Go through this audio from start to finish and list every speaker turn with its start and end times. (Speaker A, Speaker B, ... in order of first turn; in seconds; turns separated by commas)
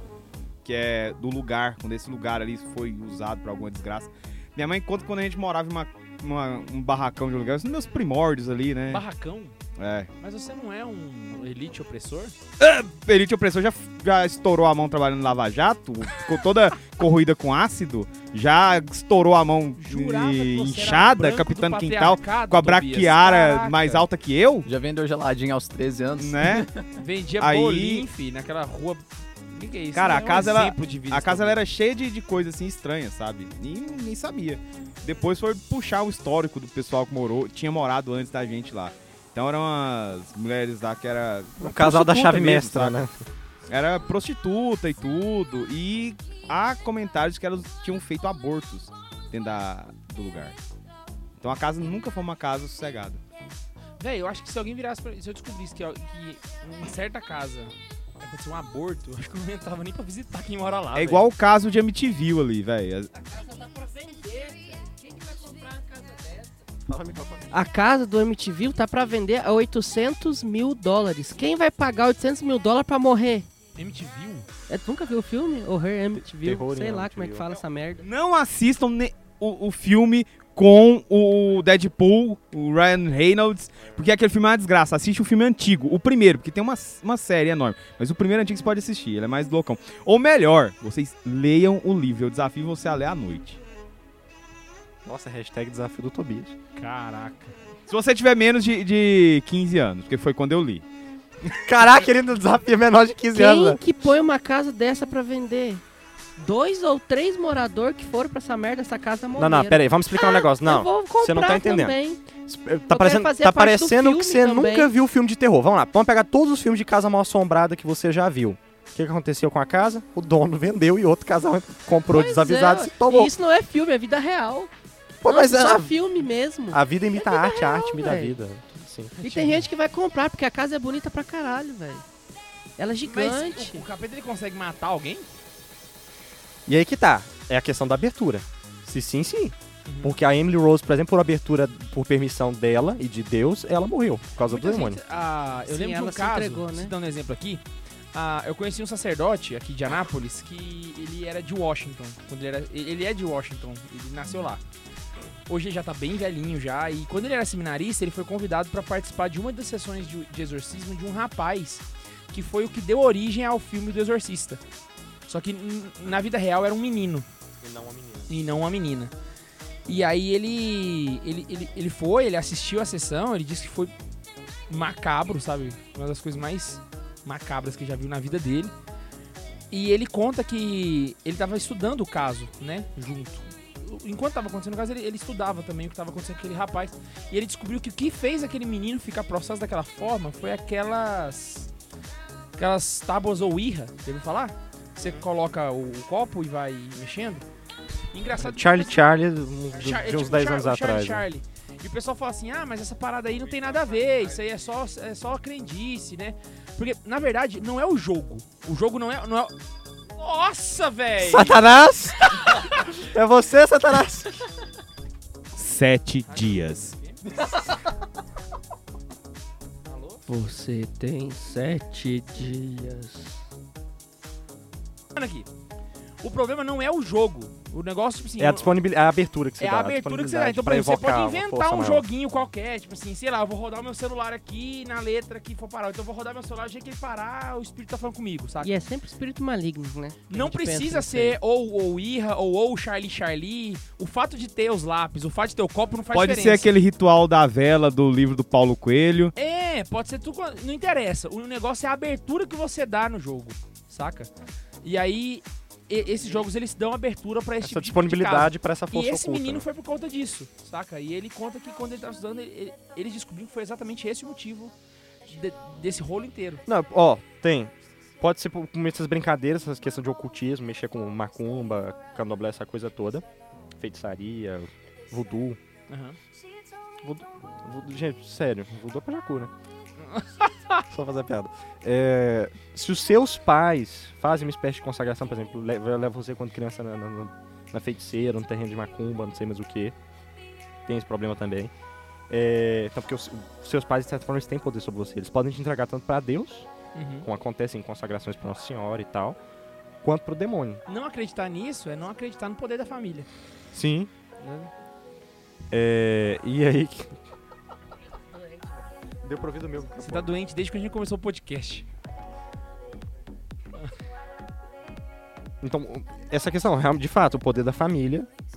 Speaker A: 0.6-9.0, Speaker B: 8.9-9.5, Speaker A: 9.8-10.1, Speaker B: 10.2-12.3, Speaker A: 12.6-24.6, Speaker B: 19.8-24.1, Speaker C: 24.6-26.9, Speaker A: 26.2-26.7, Speaker B: 27.0-31.6, Speaker A: 27.4-28.1, Speaker A: 29.9-43.0, Speaker D: 41.6-43.1, Speaker A: 43.7-50.5, Speaker A: 51.4-53.2, Speaker B: 54.0-61.2, Speaker A: 60.9-63.1, Speaker E: 63.8-64.5, Speaker D: 66.9-67.5, Speaker E: 67.5-73.5, Speaker B: 73.8-74.5, Speaker E: 74.7-78.0, Speaker D: 76.1-77.5, Speaker A: 78.0-93.6, Speaker D: 95.0-96.5, Speaker B: 96.8-97.5, Speaker A: 97.9-100.8, Speaker D: 101.5-103.8, Speaker E: 103.3-105.8, Speaker E: 106.4-112.2, Speaker D: 109.4-123.3, Speaker E: 112.9-114.9, Speaker E: 122.1-124.7, Speaker D: 125.2-125.9, Speaker E: 125.2-128.4, Speaker D: 126.7-129.2, Speaker B: 129.2-129.7, Speaker E: 129.2-132.0, Speaker E: 132.8-133.8, Speaker B: 133.0-135.3, Speaker D: 136.7-145.0, Speaker B: 139.8-140.2, Speaker B: 144.4-147.6, Speaker E: 145.7-146.9, Speaker B: 148.1-154.6, Speaker B: 155.5-164.6, Speaker B: 165.3-167.2, Speaker D: 167.6-168.3, Speaker B: 168.3-169.1, Speaker B: 169.9-173.9, Speaker B: 174.7-178.7, Speaker B: 179.7-191.7, Speaker B: 192.6-197.4, Speaker B: 198.1-199.0, Speaker D: 198.3-201.2, Speaker B: 199.7-209.5, Speaker B: 210.1-211.6, Speaker D: 211.2-212.2, Speaker B: 212.2-212.7, Speaker D: 212.8-214.4, Speaker A: 215.5-216.9, Speaker B: 216.2-217.3, Speaker B: 219.9-220.2, Speaker E: 220.3-223.4, Speaker B: 225.1-225.5, Speaker B: 226.2-228.7, Speaker D: 228.4-232.1, Speaker B: 229.6-238.7, Speaker E: 238.6-241.4, Speaker B: 240.3-246.7, Speaker A: 246.1-249.3, Speaker B: 249.3-254.3, Speaker B: 254.8-264.7, Speaker D: 257.6-259.6, Speaker B: 265.3-266.6, Speaker D: 266.6-273.2, Speaker D: 273.8-275.6, Speaker B: 275.9-276.2, Speaker D: 277.0-279.5, Speaker B: 280.0-280.8, Speaker D: 280.9-289.9, Speaker D: 290.9-291.7, Speaker D: 292.3-296.7, Speaker B: 296.9-297.3, Speaker D: 297.2-299.4, Speaker D: 300.0-300.8, Speaker B: 300.9-303.3, Speaker D: 303.7-304.1, Speaker B: 304.4-304.7, Speaker D: 305.7-307.2, Speaker D: 309.2-310.3, Speaker B: 310.0-311.9, Speaker D: 315.6-318.3